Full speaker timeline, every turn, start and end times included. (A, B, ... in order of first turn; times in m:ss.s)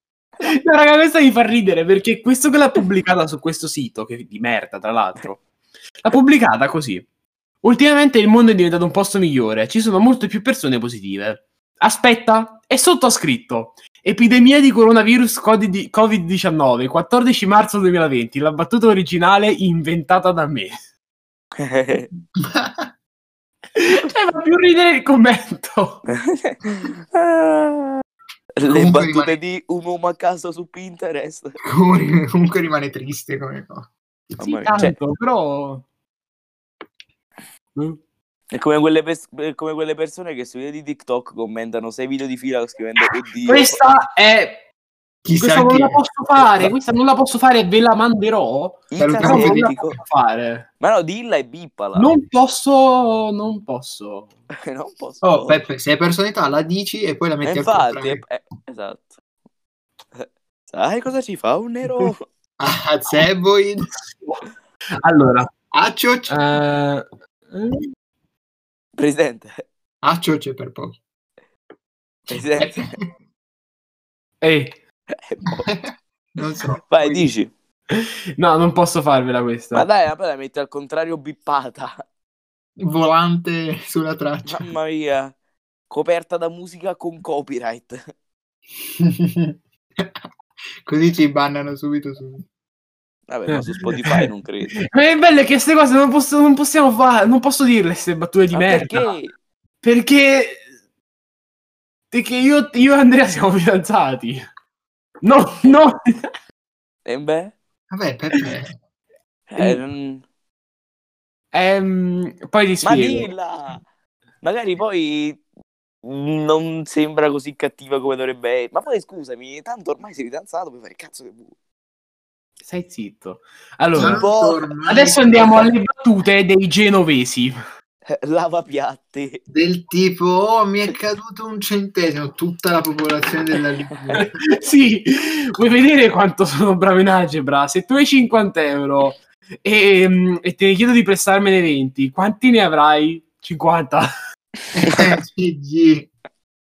0:00.4-0:05.4 A
0:06.0-0:07.0 A
0:07.6-0:20.7 A
0:21.6-0:22.1 B
0:22.3-0:22.9 C
0:23.7-0:26.0 A
0:26.1-0:28.0 B
0:28.6-0:31.5 B
0:28.7-0:29.4 C
0:31.7-0:33.9 C
0:34.4-0:34.9 B
0:34.4-0:35.8 A
0:38.5-0:43.8 B
0:43.5-0:44.6 A
0:45.2-0:46.7 C
0:45.4-0:50.7 A
0:48.9-0:50.0 B
0:49.0-0:49.7 C
0:50.8-0:52.1 B
0:52.0-0:54.3 A
0:54.6-0:55.6 B
0:55.2-0:58.2 C
0:57.4-0:59.1 B
1:00.1-1:02.2 B
1:01.9-1:03.9 C
1:05.0-1:05.5 A
1:05.7-1:06.4 C
1:06.3-1:07.9 A
1:09.0-1:09.6 B
1:10.0-1:11.0 C
1:12.3-1:12.9 B
1:12.3-1:13.0 C
1:14.4-1:14.8 A
1:15.1-1:15.7 B
1:15.6-1:17.3 C
1:16.9-1:17.5 B
1:17.9-1:19.8 A
1:19.7-1:22.0 B
1:22.8-1:24.7 C
1:24.4-1:25.3 B
1:25.9-1:28.0 B
1:28.8-1:30.2 C
1:30.8-1:32.4 C
1:33.3-1:34.8 B
1:33.5-1:34.3 A
1:34.8-1:39.1 A
1:38.5-1:39.3 B
1:39.8-1:40.6 A
1:42.1-1:44.4 A
1:45.2-1:46.0 A
1:47.0-1:47.5 B
1:47.9-1:48.7 C
1:49.5-1:50.2 B
1:51.5-1:53.3 A
1:52.8-1:53.8 B
1:54.4-1:55.4 B
1:56.0-2:01.5 B
2:02.6-2:04.2 A
2:03.9-2:04.7 B
2:03.9-2:05.7 C
2:04.9-2:07.6 A
2:08.0-2:09.4 B
2:09.5-2:14.4 C
2:14.0-2:14.2 B
2:14.2-2:24.1 A
2:24.7-2:26.1 C